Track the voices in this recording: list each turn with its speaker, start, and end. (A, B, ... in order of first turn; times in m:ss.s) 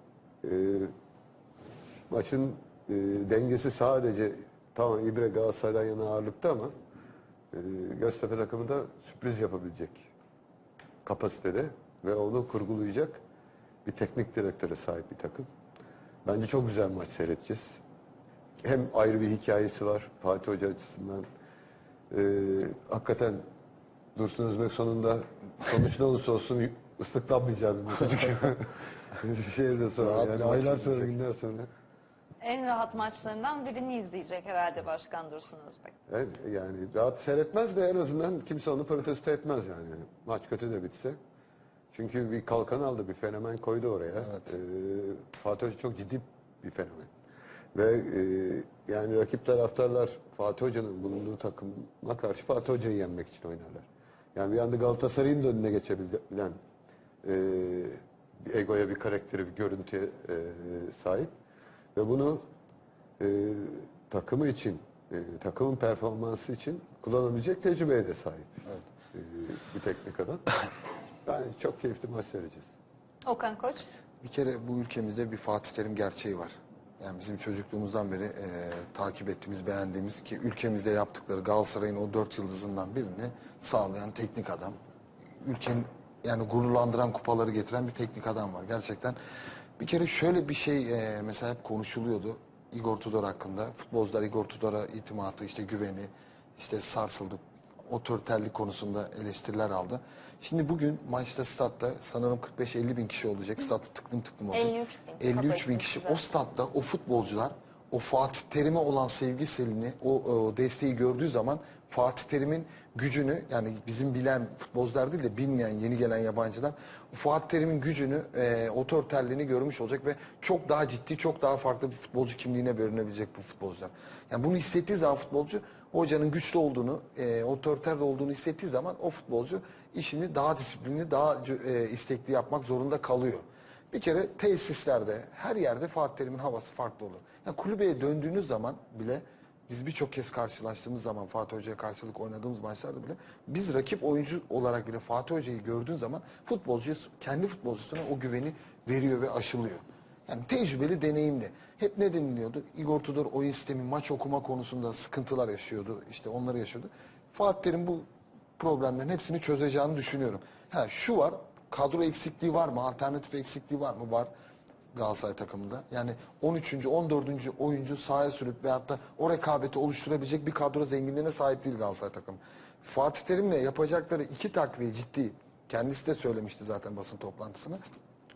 0:00.4-0:00.9 A
0:02.1-0:06.7 A
0:07.5-0:10.1 A
0:11.0-0:13.2 A
0:13.8-0:15.5 A
0:16.2-0:17.8 A
0:18.6-0:21.3 A
0:22.1-0:23.4 A
0:24.1-0:31.7 A
0:30.0-0:31.1 B
0:32.4-0:35.9 C
0:36.1-0:41.2 A
0:41.9-0:47.1 A
0:47.7-0:56.6 A
0:57.2-1:01.3 A
1:01.9-1:02.4 A
1:03.2-1:08.6 A
1:09.1-1:10.4 A
1:11.2-1:12.7 A
1:13.2-1:13.9 C
1:14.2-1:24.7 B
1:25.4-1:29.2 B
1:29.8-2:38.0 B
1:44.5-1:46.2 C
2:38.6-2:44.3 B
2:44.9-2:57.8 B